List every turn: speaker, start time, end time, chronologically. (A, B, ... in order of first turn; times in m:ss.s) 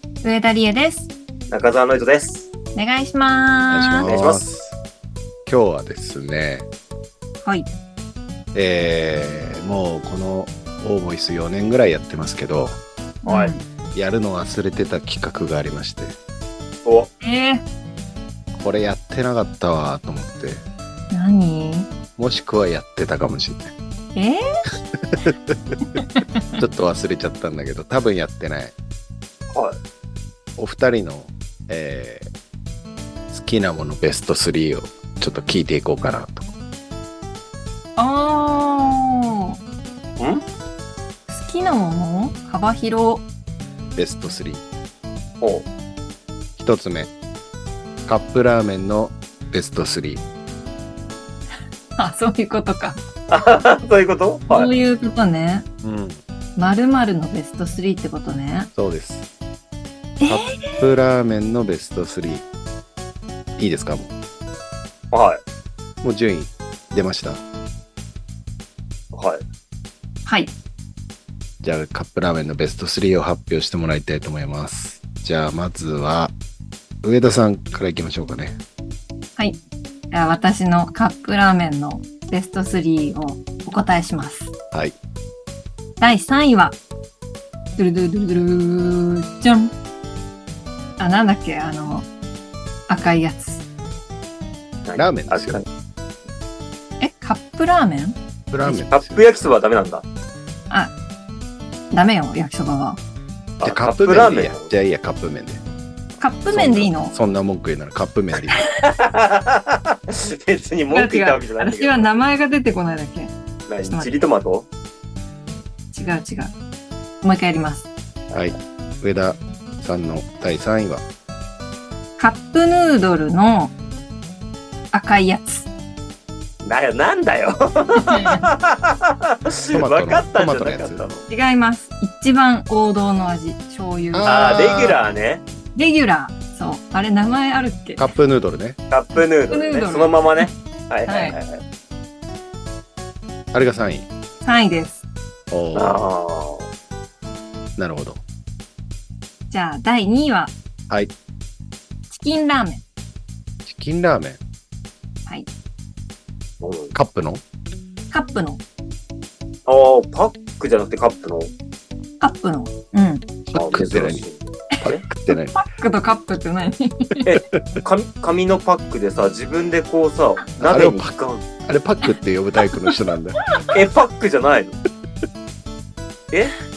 0:00.2-0:01.1 A
0:01.5-0:02.5 B
0:02.8-0:04.1 A
0:03.7-0:04.8 C
0:04.0-0:04.4 B
0:05.5-0:06.7 C
0:07.4-0:07.7 A
0:08.5-0:12.8 C
0:13.2-0:13.6 A
0:13.3-0:13.5 B
0:13.9-0:16.2 C
0:16.8-0:17.1 B
0:17.2-0:17.6 A
0:18.5-0:20.6 C
0:21.1-0:21.9 A
0:22.2-0:23.7 C
0:24.2-0:24.4 A
0:25.2-0:25.8 C
0:26.0-0:26.4 A
0:26.6-0:28.8 C
0:29.5-0:29.8 B
0:30.6-0:32.3 C
0:33.3-0:36.5 C
0:38.0-0:39.6 A
0:40.2-0:40.4 B
0:41.3-0:43.3 A
0:44.0-0:44.6 C
0:45.4-0:45.7 B
0:46.6-0:47.1 C
0:48.1-0:50.2 C
0:52.0-0:53.0 A
0:53.3-0:54.7 B
0:54.5-0:55.7 A
0:55.8-0:56.2 C
0:56.6-0:58.7 A
0:58.8-0:59.3 C
1:00.2-1:00.9 A
1:00.2-1:02.5 C
1:03.6-1:04.2 C
1:05.1-1:05.4 B
1:06.0-1:07.4 C
1:09.1-1:09.4 B
1:10.3-1:10.5 A
1:11.6-1:16.3 C
1:17.0-1:18.6 C
1:20.1-1:24.5 A
1:26.0-1:26.8 A
1:27.8-1:29.7 A
1:31.0-1:32.1 A
1:32.9-1:33.6 A
1:34.8-1:35.7 B
1:35.0-1:35.6 C
1:37.0-1:38.2 A
1:38.5-1:39.5 C
1:38.7-1:40.0 B
1:41.9-1:43.0 A
1:43.6-1:44.7 B
1:43.6-1:45.6 C
1:46.2-1:47.1 A
1:46.5-1:48.7 C
1:48.8-1:52.1 B
1:50.9-1:53.3 A
1:53.7-1:54.7 B
1:53.9-1:54.2 A
1:55.9-1:56.6 A
1:57.2-1:57.9 A
1:58.3-2:01.0 C
2:02.2-2:03.7 A
2:04.9-2:05.7 A
2:06.6-2:11.3 B
2:08.0-2:08.5 A
2:09.7-2:11.0 C
2:11.3-2:14.3 A
2:14.1-2:15.0 C
2:14.3-2:15.4 B
2:15.8-2:18.1 A
2:18.0-2:18.8 C
2:18.9-2:21.6 B
2:19.2-2:20.5 A
2:21.1-2:21.4 A
2:23.5-2:24.1 C
2:24.4-2:25.0 A
2:25.5-2:26.0 C
2:25.8-2:26.7 B
2:27.8-2:28.2 C
2:29.5-2:30.5 A
2:32.1-2:32.8 A
2:33.6-2:34.4 C
2:36.6-2:36.9 B
2:36.9-2:37.4 C
2:38.1-2:38.6 A
2:39.7-2:41.5 B
2:42.2-2:43.2 A
2:43.5-2:44.2 C
2:43.6-2:45.0 B
2:44.8-2:45.6 C
2:45.3-2:47.3 A
2:47.3-2:51.5 B
2:50.6-2:53.4 C
2:53.7-2:54.8 B